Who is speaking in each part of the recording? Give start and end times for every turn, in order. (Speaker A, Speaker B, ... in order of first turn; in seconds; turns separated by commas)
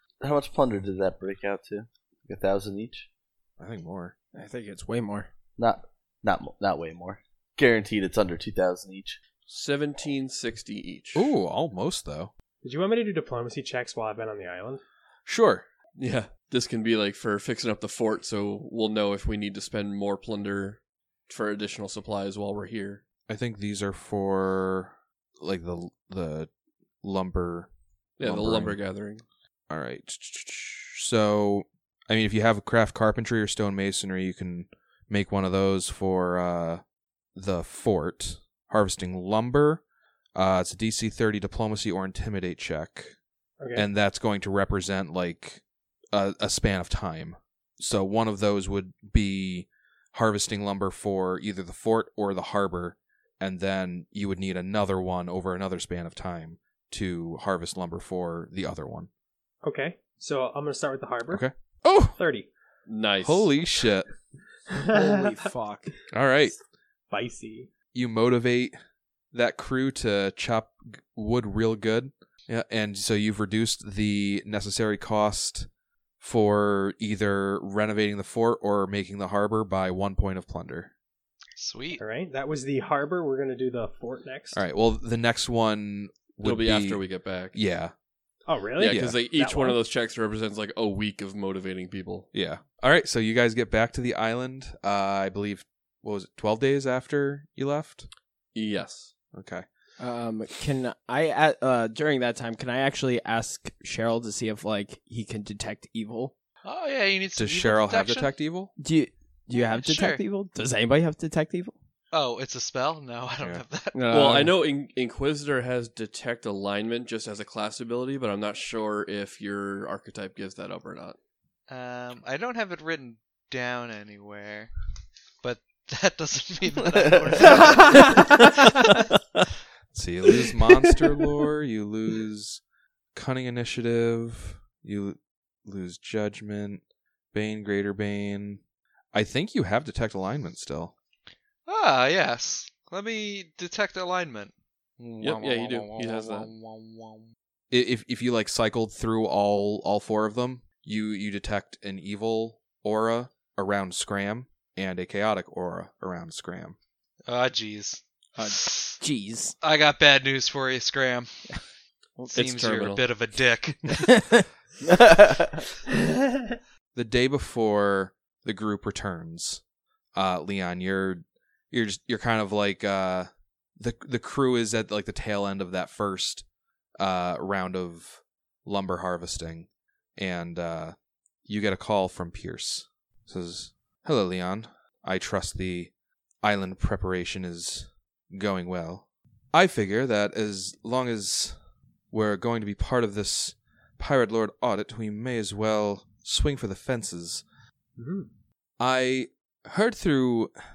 Speaker A: 0.2-3.1, Speaker B: 3.6-4.1, Speaker C: 4.3-5.3, Speaker A: 5.6-9.2, Speaker D: 9.5-11.3, Speaker B: 11.1-12.3, Speaker E: 12.6-14.8, Speaker B: 15.2-15.7, Speaker D: 15.9-23.0, Speaker B: 23.3-26.5, Speaker B: 27.0-28.8, Speaker D: 28.2-29.2, Speaker B: 29.7-36.8, Speaker B: 37.3-39.8, Speaker B: 40.3-43.1, Speaker E: 43.6-43.9, Speaker B: 43.7-59.1, Speaker E: 59.6-61.4, Speaker B: 61.3-62.2, Speaker E: 62.1-62.5, Speaker D: 62.9-63.5, Speaker B: 63.2-64.1, Speaker E: 64.7-65.4, Speaker C: 64.9-65.9, Speaker B: 66.1-66.5, Speaker E: 67.1-67.7, Speaker B: 67.9-68.7, Speaker B: 69.3-75.7, Speaker B: 76.2-80.9, Speaker F: 81.6-82.0, Speaker E: 82.0-84.6, Speaker B: 84.5-87.9, Speaker D: 86.4-87.6, Speaker E: 88.5-89.8, Speaker D: 88.8-92.3, Speaker B: 88.8-89.2, Speaker B: 92.3-98.1, Speaker D: 98.5-99.1, Speaker B: 99.3-99.7, Speaker C: 100.0-106.3, Speaker F: 106.6-108.3, Speaker B: 107.3-108.7, Speaker C: 108.8-111.7, Speaker F: 109.5-110.2, Speaker F: 112.1-114.0, Speaker C: 113.9-114.5, Speaker D: 114.1-121.2, Speaker F: 121.7-124.7, Speaker F: 125.4-128.4, Speaker C: 127.9-128.4, Speaker B: 129.9-132.6, Speaker B: 133.1-138.6, Speaker B: 139.1-140.9, Speaker F: 141.7-145.7, Speaker D: 145.2-146.5, Speaker F: 146.5-147.0, Speaker B: 147.7-156.8, Speaker F: 157.3-158.9, Speaker C: 158.4-159.6, Speaker F: 159.6-161.3, Speaker F: 162.2-164.2, Speaker D: 162.3-163.1, Speaker C: 164.1-164.4, Speaker A: 164.8-165.6, Speaker B: 166.9-169.6, Speaker B: 170.1-176.4, Speaker B: 177.0-191.5, Speaker B: 192.1-197.4, Speaker E: 198.0-198.3, Speaker B: 198.8-200.5